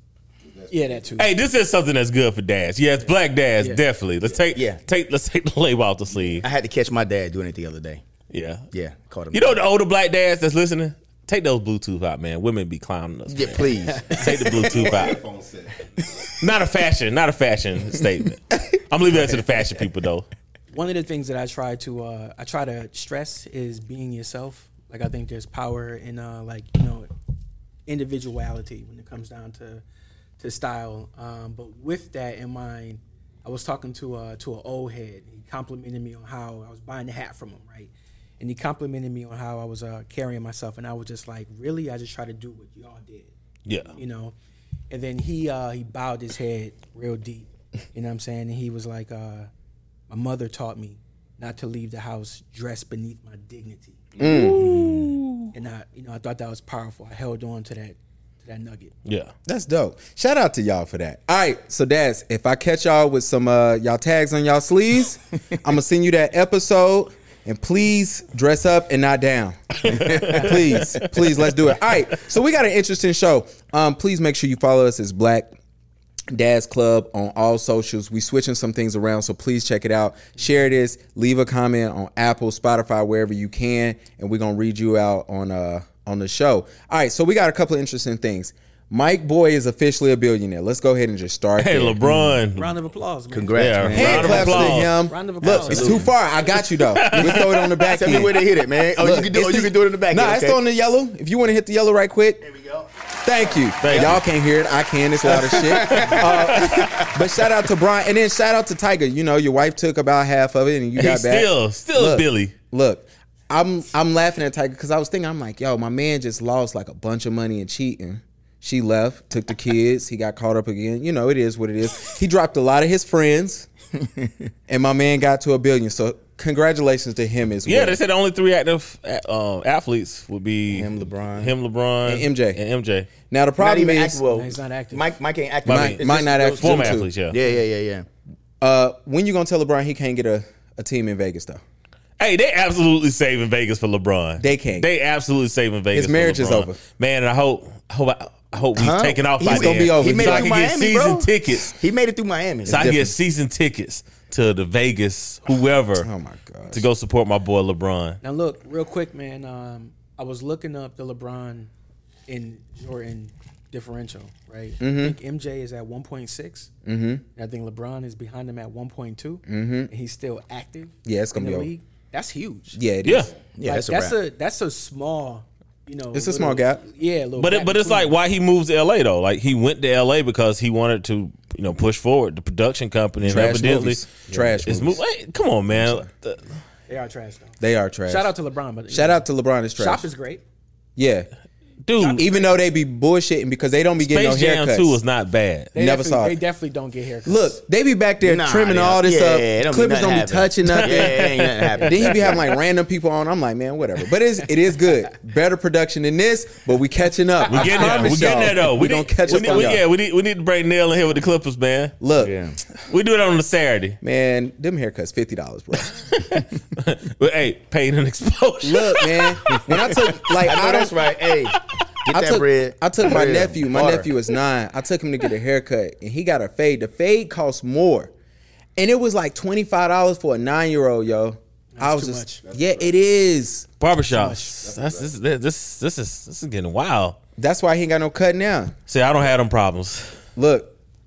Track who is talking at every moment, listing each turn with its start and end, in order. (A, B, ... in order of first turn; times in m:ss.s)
0:00.4-0:01.2 A
0:00.7-0:01.3 B
0:01.2-0:06.4 C
0:04.5-0:04.8 D
0:06.4-0:08.0 D
0:08.3-0:08.6 C
0:08.7-0:09.6 D
0:09.3-0:15.2 C
0:13.3-0:14.9 D
0:13.9-0:14.2 B
0:14.7-0:15.9 A
0:16.4-0:20.3 C
0:20.7-0:27.1 B
0:27.9-0:29.8 B
0:30.4-0:43.3 B
0:43.6-0:43.9 C
0:44.0-0:44.3 B
0:44.9-0:49.5 B
0:50.1-0:54.1 B
0:54.2-0:54.7 E
0:54.2-0:55.5 C
0:54.6-0:55.1 D
0:55.5-0:58.9 B
0:59.1-0:59.3 C
0:59.4-1:15.5 E
1:09.9-1:11.1 C
1:09.9-1:10.2 D
1:16.3-1:32.4 E
1:31.6-1:32.7 C
1:32.5-1:36.1 B
1:33.3-1:34.8 D
1:33.5-1:35.0 C
1:33.9-1:42.4 E
1:35.5-1:36.1 D
1:36.5-1:38.3 C
1:37.9-1:40.6 D
1:42.4-1:42.9 D
1:43.2-2:03.7 E
1:43.8-1:44.2 C
1:45.3-1:47.1 D
1:45.7-1:47.0 C
1:51.0-1:52.5 C
2:04.7-2:08.0 E
2:07.6-2:13.1 C
2:10.7-2:11.5 D
2:12.0-2:12.6 E
2:13.3-2:14.2 E
2:13.6-2:18.0 D
2:14.2-2:15.1 B
2:15.6-2:17.1 E
2:15.6-2:17.4 C
2:18.6-2:21.6 E
2:22.2-2:31.8 C
2:24.4-2:24.9 E
2:25.9-2:26.8 E
2:28.8-2:33.1 D
2:29.5-2:30.6 E
2:32.6-2:36.1 C
2:36.0-2:36.8 E
2:36.7-2:38.2 C
2:38.2-2:41.7 B
2:42.3-2:46.7 B
2:44.8-2:45.2 E
2:46.9-2:47.2 E
2:47.4-2:52.8 B
2:49.5-2:49.9 E
2:51.0-2:51.7 E
2:52.7-2:53.3 E
2:53.0-2:53.3 C
2:53.5-2:54.2 D
2:53.6-2:58.1 B
2:56.1-2:56.8 E
2:57.4-3:04.1 C
3:03.2-3:05.0 E
3:04.6-3:06.5 C
3:05.7-3:06.1 E
3:06.9-3:07.6 B
3:07.6-3:08.3 E
3:08.1-3:09.2 B
3:08.9-3:10.0 E
3:09.8-3:10.4 B
3:11.0-3:11.3 E
3:11.8-3:12.2 C
3:12.0-3:12.3 B
3:12.0-3:15.0 E
3:14.0-3:15.7 C
3:15.7-3:17.6 B
3:15.8-3:16.4 E
3:17.2-3:29.8 E
3:18.2-3:22.5 D
3:20.6-3:22.2 C
3:27.5-3:32.0 C
3:27.6-3:28.1 B
3:32.0-3:32.4 E
3:32.2-3:32.6 D
3:32.9-3:34.0 C
3:34.0-3:36.1 E
3:36.1-3:39.6 C
3:38.6-3:41.0 E
3:40.4-3:44.1 D
3:42.1-3:48.1 E
3:48.8-3:53.7 E
3:51.8-3:52.4 B
3:52.4-3:53.0 A
3:53.8-3:57.2 C
3:54.1-3:54.6 B
3:54.6-3:55.1 A
3:57.4-3:58.8 E
3:58.9-4:00.2 C
4:00.4-4:00.7 E